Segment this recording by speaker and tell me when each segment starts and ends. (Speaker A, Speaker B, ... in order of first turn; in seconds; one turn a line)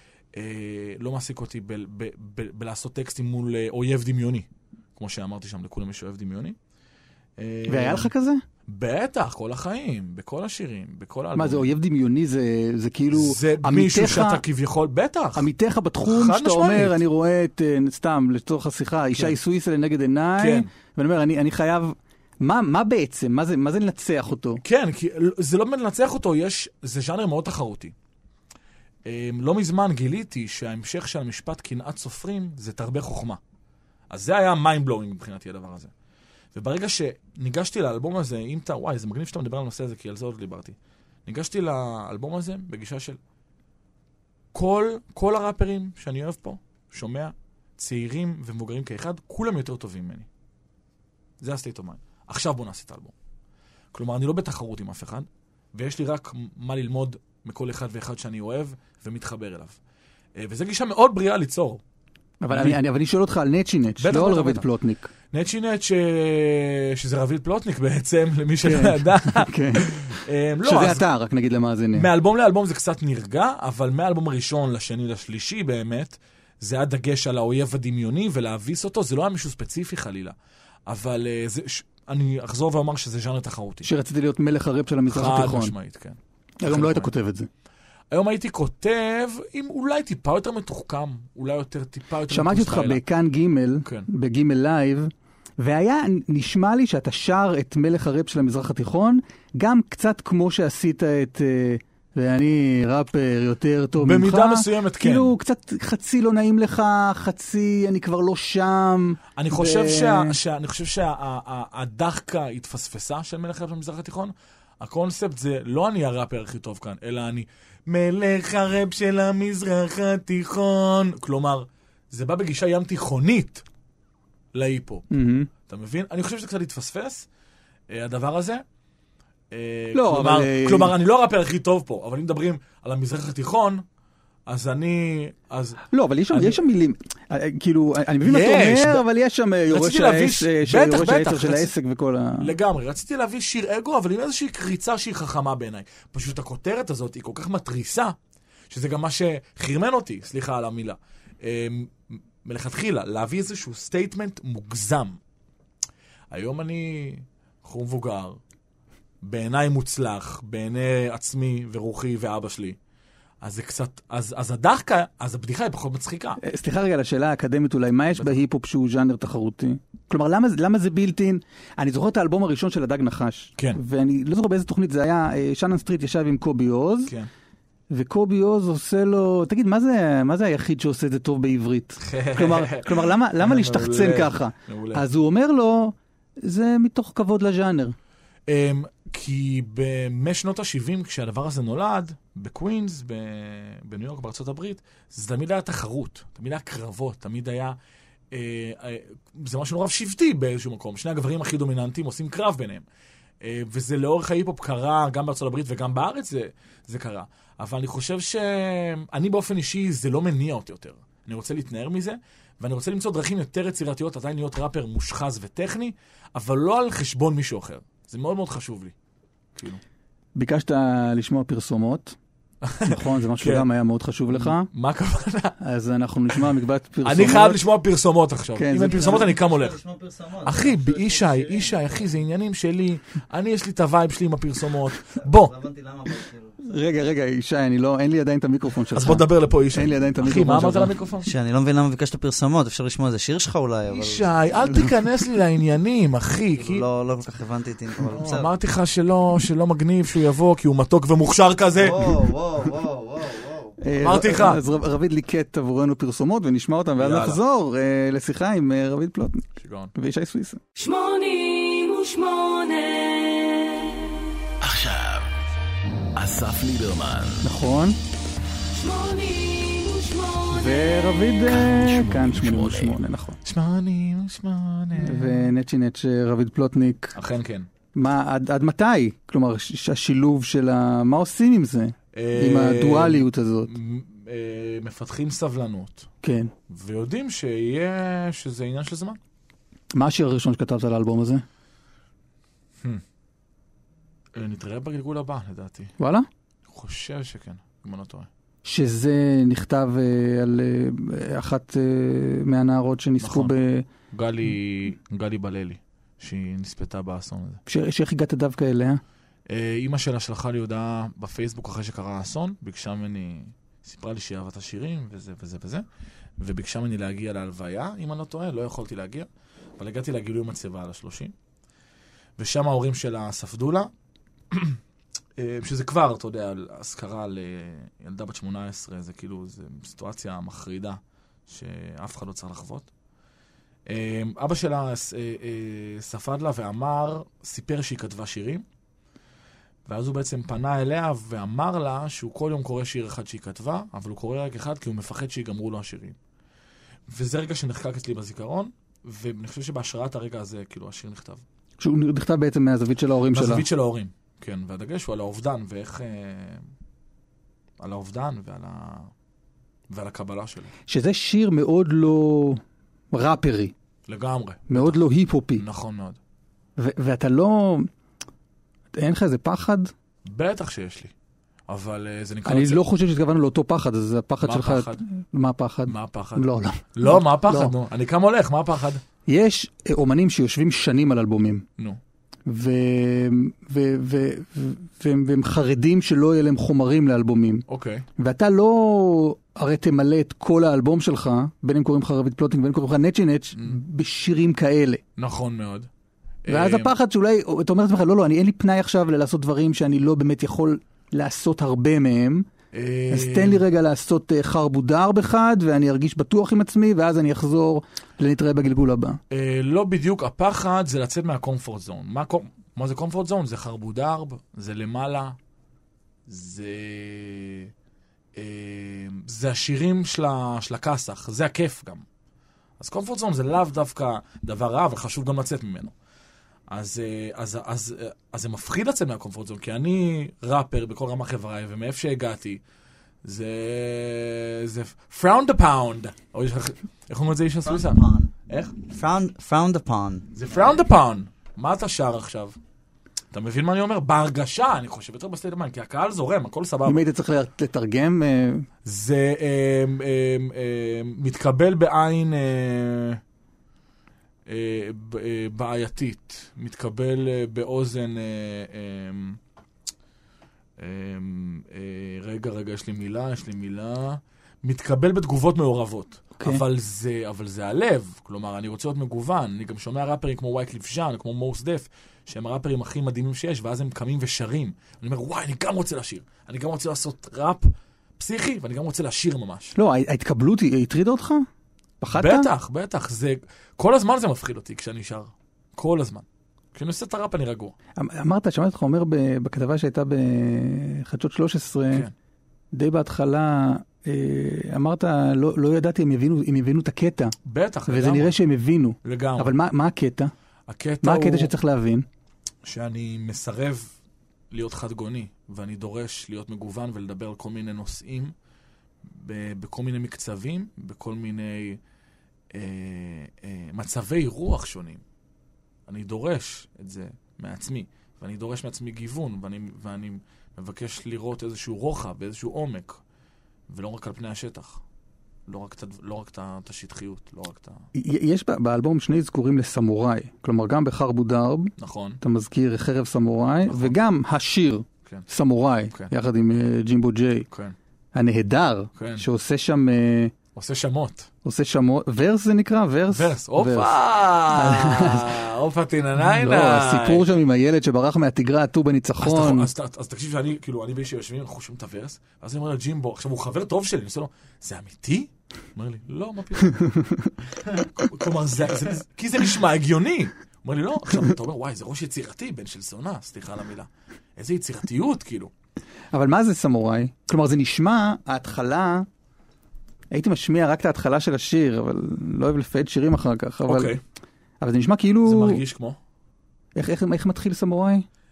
Speaker A: 0.3-6.6
Speaker A: 7.4-8.1
Speaker B: 7.7-8.4
Speaker A: 8.7-11.7
Speaker B: 11.3-14.4
Speaker A: 13.1-15.5
Speaker B: 15.3-24.6
Speaker A: 16.1-17.0
Speaker A: 20.4-20.7
Speaker A: 24.6-27.9
Speaker A: 29.1-33.4
Speaker A: 34.1-35.9
Speaker A: 36.5-43.2
Speaker A: 44.5-50.3
Speaker A: 51.4-53.1
Speaker A: 53.9-59.8
Speaker A: 60.4-61.8
Speaker B: 62.4-65.1
Speaker A: 62.5-62.8
Speaker A: 64.0-64.7
Speaker A: 65.3-71.1
Speaker B: 68.6-72.1
Speaker A: 72.0-80.4
Speaker A: 80.9-83.9
Speaker B: 83.8-85.7
Speaker A: 85.1-87.1
Speaker B: 86.6-87.5
Speaker A: 88.1-93.0
Speaker B: 92.3-110.4
Speaker A: 104.0-105.3
Speaker A: 109.4-123.6
Speaker A: 124.5-125.1
Speaker B: 125.1-125.5
Speaker A: 125.7-127.3
Speaker A: 127.9-128.6
Speaker A: 129.5-133.8
Speaker B: 129.9-130.9
Speaker A: 134.5-136.6
Speaker B: 135.9-142.5
Speaker A: 138.2-139.1
Speaker A: 139.7-141.7
Speaker A: 142.4-148.2
Speaker A: 148.7-155.2
Speaker A: 156.3-158.4
Speaker A: 159.2-162.8
Speaker A: 163.4-166.4
Speaker B: 166.4-177.1
Speaker A: 168.2-168.4
Speaker B: 177.9-187.9
Speaker A: 182.0-185.0
Speaker A: 188.5-197.8
Speaker A: 198.3-202.8
Speaker A: 203.4-218.9
Speaker A: 219.6-219.8
Speaker B: 220.4-222.2
Speaker A: 222.6-223.7
Speaker B: 222.8-224.7
Speaker A: 224.3-225.6
Speaker B: 225.6-227.6
Speaker A: 227.0-229.8
Speaker B: 228.6-229.3
Speaker C: 229.1-232.1
Speaker A: 230.4-235.6
Speaker C: 235.1-236.6
Speaker B: 236.7-240.9
Speaker A: 238.9-241.3
Speaker C: 241.3-244.4
Speaker A: 243.9-246.8
Speaker C: 246.6-248.5
Speaker A: 248.1-252.2
Speaker C: 251.8-253.8
Speaker B: 253.8-260.6
Speaker A: 254.0-254.6
Speaker A: 257.0-257.4
Speaker A: 259.6-259.9
Speaker D: 260.8-264.1
Speaker E: 264.6-265.3
Speaker E: 266.2-267.5
Speaker B: 267.4-268.0
Speaker D: 268.7-271.1
Speaker B: 270.5-273.4
Speaker E: 271.4-273.0
Speaker A: 273.4-275.5
Speaker B: 275.0-277.2
Speaker A: 277.1-277.7
Speaker B: 278.0-283.7
Speaker A: 282.1-286.1
Speaker B: 286.2-286.5
Speaker A: 286.7-289.2
Speaker B: 289.9-291.4
Speaker A: 294.4-295.9
Speaker B: 296.0-296.3
Speaker A: 296.7-298.3
Speaker B: 298.6-303.9
Speaker A: 303.2-303.6
Speaker A: 304.1-307.6
Speaker B: 307.7-309.0
Speaker A: 309.5-315.9
Speaker A: 316.4-321.3
Speaker A: 322.4-323.9
Speaker A: 324.5-324.8
Speaker A: 325.4-332.9
Speaker A: 333.9-338.6
Speaker A: 339.9-346.2
Speaker A: 347.1-351.4
Speaker B: 351.8-353.7
Speaker A: 353.3-356.7
Speaker A: 357.8-359.1
Speaker A: 359.9-360.7
Speaker B: 360.9-363.7
Speaker A: 364.1-366.2
Speaker B: 364.7-365.6
Speaker B: 366.8-367.9
Speaker B: 368.9-369.9
Speaker A: 370.2-371.1
Speaker A: 371.7-372.8
Speaker B: 372.5-377.7
Speaker A: 374.4-375.0
Speaker A: 375.9-379.0
Speaker B: 379.3-381.6
Speaker B: 382.5-387.6
Speaker A: 387.7-388.1
Speaker B: 388.2-395.0
Speaker A: 395.2-395.9
Speaker A: 396.4-396.9
Speaker B: 396.5-402.5
Speaker A: 402.7-403.6
Speaker B: 403.1-409.2
Speaker A: 409.3-415.4
Speaker A: 416.3-417.7
Speaker A: 418.4-422.0
Speaker A: 422.8-425.9
Speaker A: 426.7-432.6
Speaker A: 433.2-438.8
Speaker C: 437.6-438.3
Speaker C: 438.8-440.3
Speaker A: 440.3-442.6
Speaker A: 443.3-447.0
Speaker B: 446.9-448.7
Speaker A: 448.9-453.2
Speaker A: 454.5-459.4
Speaker A: 460.8-479.8
Speaker B: 466.4-466.6
Speaker B: 479.8-481.5
Speaker B: 482.0-482.5
Speaker A: 482.1-487.7
Speaker B: 488.0-492.1
Speaker B: 492.7-497.3
Speaker A: 497.4-498.4
Speaker B: 497.9-500.3
Speaker A: 499.0-499.5
Speaker A: 500.7-501.5
Speaker B: 501.0-502.1
Speaker A: 502.6-503.9
Speaker A: 504.5-508.3
Speaker A: 509.1-511.8
Speaker A: 512.5-515.0
Speaker A: 515.9-523.0
Speaker A: 523.7-524.8
Speaker A: 525.5-527.9
Speaker B: 528.0-537.5
Speaker A: 531.8-532.2
Speaker A: 533.6-534.0
Speaker A: 537.5-537.8
Speaker B: 538.1-540.3
Speaker A: 539.0-539.2
Speaker A: 540.5-541.3
Speaker B: 541.4-544.0
Speaker A: 543.1-547.4
Speaker B: 544.5-545.4
Speaker B: 546.2-549.7
Speaker A: 549.2-556.9
Speaker B: 556.7-557.3
Speaker A: 557.7-565.5
Speaker B: 566.1-569.1
Speaker B: 570.1-573.9
Speaker A: 573.7-574.0
Speaker B: 574.6-575.6
Speaker A: 575.2-576.0
Speaker B: 576.8-578.1